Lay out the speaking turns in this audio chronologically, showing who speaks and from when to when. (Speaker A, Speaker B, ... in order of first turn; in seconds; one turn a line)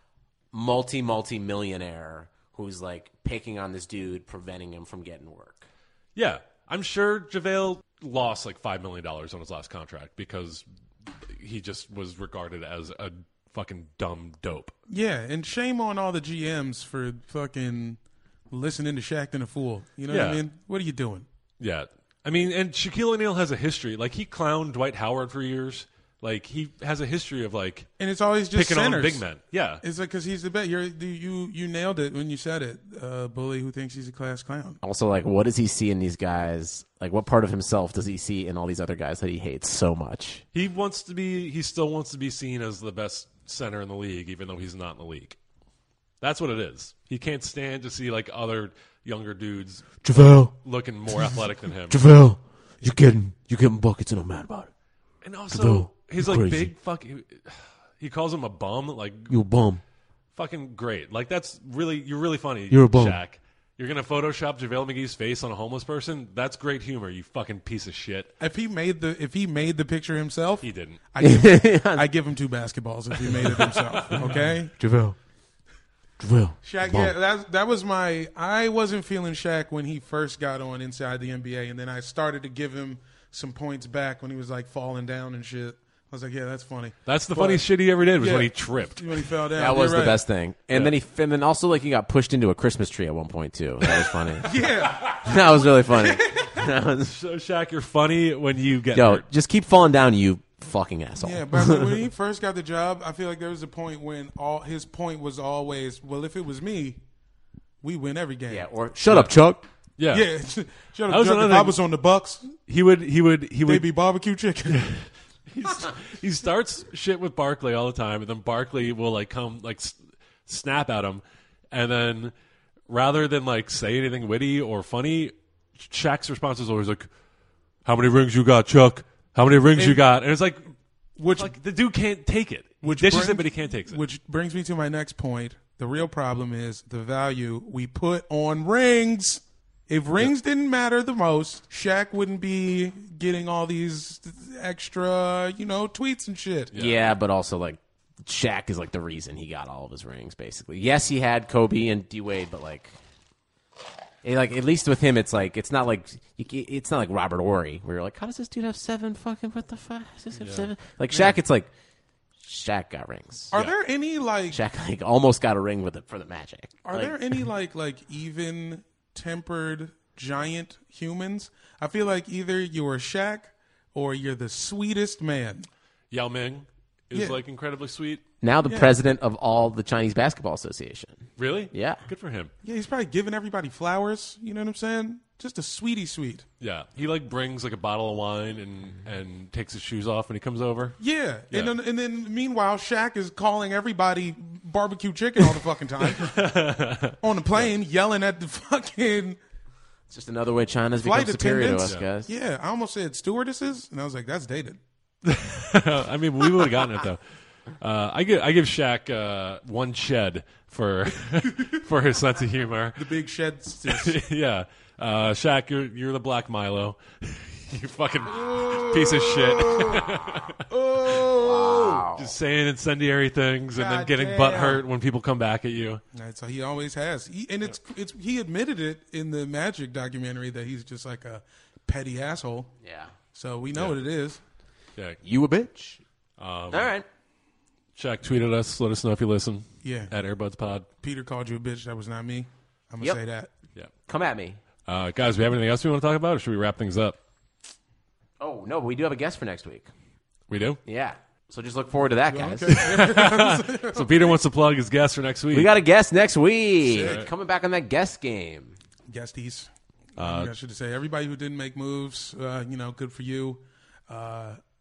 Speaker A: 0.5-5.6
Speaker B: 6.1-10.6
Speaker B: 11.3-14.7
Speaker C: 14.9-18.0
Speaker C: 18.5-21.3
Speaker B: 20.1-20.4
Speaker B: 21.6-27.9
Speaker C: 28.0-29.2
Speaker B: 28.5-29.8
Speaker C: 29.8-34.8
Speaker A: 34.8-40.4
Speaker B: 40.5-45.4
Speaker B: 46.2-52.0
Speaker A: 50.0-50.5
Speaker A: 51.9-54.7
Speaker B: 55.2-59.3
Speaker A: 55.5-56.7
Speaker A: 59.3-59.8
Speaker B: 60.3-68.3
Speaker A: 62.7-63.2
Speaker C: 68.4-74.7
Speaker B: 70.6-71.0
Speaker A: 71.2-72.1
Speaker B: 73.2-74.6
Speaker A: 74.1-75.2
Speaker A: 76.2-77.1
Speaker C: 76.6-87.6
Speaker B: 87.0-89.3
Speaker C: 88.2-90.2
Speaker A: 89.5-94.5
Speaker C: 94.4-96.6
Speaker A: 95.1-97.1
Speaker B: 97.1-99.2
Speaker A: 98.9-102.0
Speaker C: 101.2-107.0
Speaker C: 107.8-108.7
Speaker A: 108.5-109.6
Speaker B: 110.0-110.3
Speaker C: 110.1-112.5
Speaker B: 111.1-111.8
Speaker B: 112.7-113.9
Speaker C: 113.7-114.9
Speaker B: 114.7-120.0
Speaker B: 120.5-122.3
Speaker B: 122.9-127.1
Speaker B: 127.8-130.7
Speaker C: 129.7-130.0
Speaker C: 131.2-131.5
Speaker B: 131.3-134.0
Speaker C: 132.8-146.7
Speaker B: 146.7-147.1
Speaker A: 146.7-153.0
Speaker A: 154.2-161.7
Speaker B: 160.4-160.7
Speaker A: 162.4-163.5
Speaker C: 163.5-164.6
Speaker A: 164.5-167.2
Speaker C: 166.8-175.7
Speaker B: 176.1-178.2
Speaker C: 177.1-177.4
Speaker A: 178.4-182.0
Speaker C: 178.7-178.9
Speaker B: 181.4-182.5
Speaker C: 182.6-186.4
Speaker B: 186.6-191.0
Speaker C: 191.0-196.4
Speaker B: 195.4-197.2
Speaker C: 197.2-199.4
Speaker A: 200.1-202.3
Speaker C: 201.0-204.8
Speaker B: 205.2-207.2
Speaker B: 207.8-213.1
Speaker C: 213.0-214.2
Speaker B: 213.8-220.6
Speaker C: 218.3-222.0
Speaker A: 221.3-222.3
Speaker B: 222.1-226.0
Speaker C: 223.8-224.8
Speaker C: 226.1-232.7
Speaker A: 232.8-233.1
Speaker C: 233.3-234.4
Speaker A: 235.2-236.0
Speaker B: 236.4-236.9
Speaker A: 236.7-237.1
Speaker B: 237.9-240.8
Speaker C: 239.8-240.1
Speaker C: 241.0-243.5
Speaker A: 244.1-244.6
Speaker B: 244.8-247.2
Speaker A: 248.4-249.9
Speaker B: 250.5-250.8
Speaker A: 250.8-252.9
Speaker C: 252.3-254.3
Speaker B: 252.7-255.7
Speaker A: 255.5-258.8
Speaker C: 256.8-257.2
Speaker B: 257.0-257.3
Speaker C: 259.1-264.6
Speaker B: 260.2-260.5